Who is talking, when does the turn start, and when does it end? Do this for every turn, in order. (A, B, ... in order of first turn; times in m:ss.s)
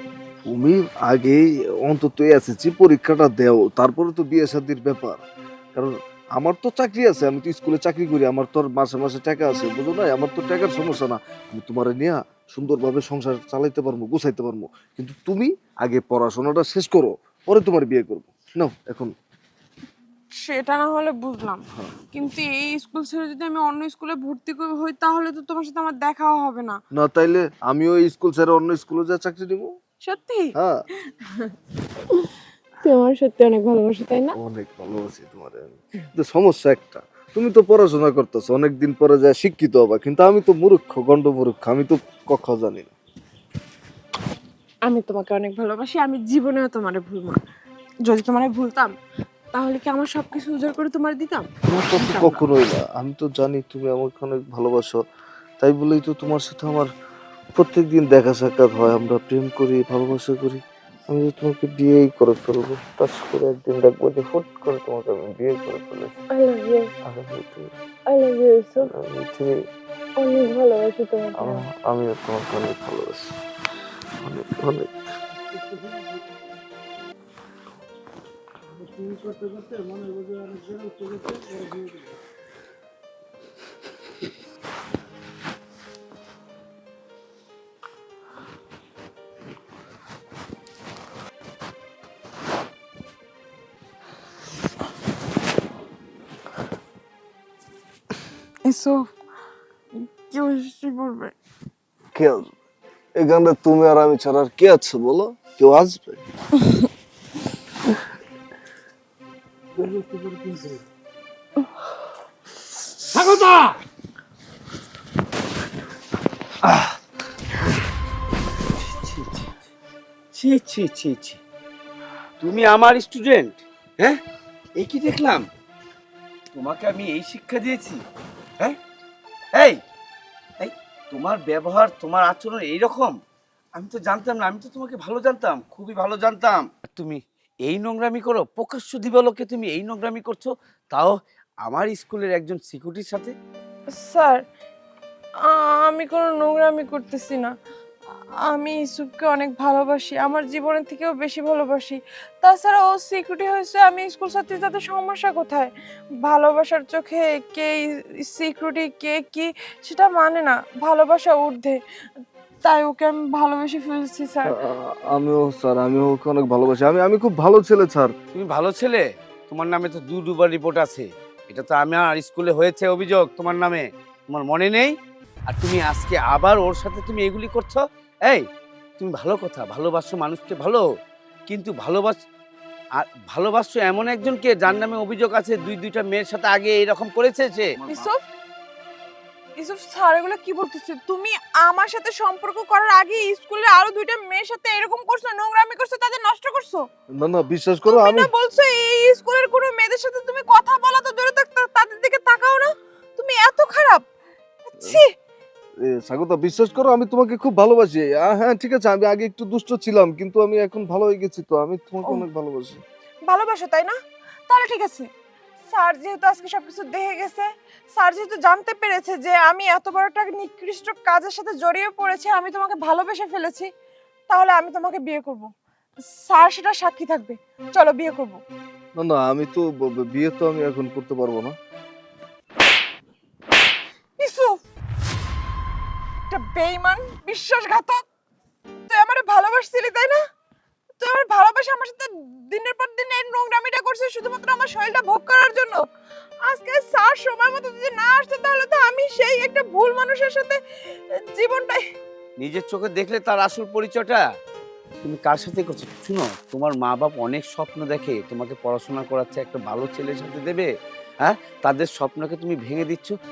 0:00.4-0:05.2 A
0:05.8-0:19.1 A
0:20.4-0:26.8 B
0:27.0-0:29.7 A
0:30.0-0:30.5 B
0:30.6-0:30.8 A
0:31.1-0:31.5 B
0:32.8-0:34.4 B
0:34.4-0:42.9 A
0:44.8-0:47.4 B
0:48.0-0:48.9 B
0:49.5-0:52.4 B
0:51.7-0:55.0 A
0:55.6-0:56.9 A
0:57.6-1:06.2 A
1:06.3-1:06.9 B
1:07.0-1:07.7 A
1:08.1-1:08.9 B
1:08.8-1:09.6 A
1:10.2-1:11.6 B
1:11.4-1:13.3 A
1:14.2-1:14.9 A
1:20.6-1:21.8 A
1:38.6-1:39.1 B
1:40.0-1:41.3 B
1:42.1-1:42.5 A
1:43.2-1:46.2 A
1:49.8-1:50.8 A
1:53.2-1:53.7 C
1:58.8-1:59.5 C
2:00.3-2:01.4 C
2:02.4-2:04.2 C
2:04.8-2:05.5 C
2:06.5-2:08.0 C
2:10.6-2:13.2 C
2:13.8-2:21.1 C
2:21.6-2:23.3 C
2:23.9-2:24.4 B
2:25.5-2:27.5 B
2:28.4-2:35.7 B
2:36.2-2:41.8 B
2:42.6-2:44.5 B
2:44.5-2:48.1 A
2:48.3-2:55.0 C
2:55.5-2:58.4 C
2:59.0-3:00.8 C
3:01.5-3:02.2 C
3:03.0-3:08.1 C
3:07.9-3:08.2 B
3:09.6-3:16.8 B
3:17.2-3:18.3 A
3:17.9-3:24.1 B
3:24.7-3:25.1 B
3:25.8-3:32.8 A
3:33.3-3:34.0 B
3:34.5-3:35.1 B
3:35.7-3:43.7 B
3:44.3-3:45.5 B
3:46.2-3:48.4 B
3:49.0-3:51.6 A
3:54.2-3:54.6 B
3:56.3-3:58.0 B
3:58.9-4:00.2 B
4:01.0-4:05.8 B
4:06.5-4:10.6 B
4:11.4-4:11.8 B
4:12.4-4:14.2 C
4:15.0-4:20.7 C
4:21.2-4:23.2 C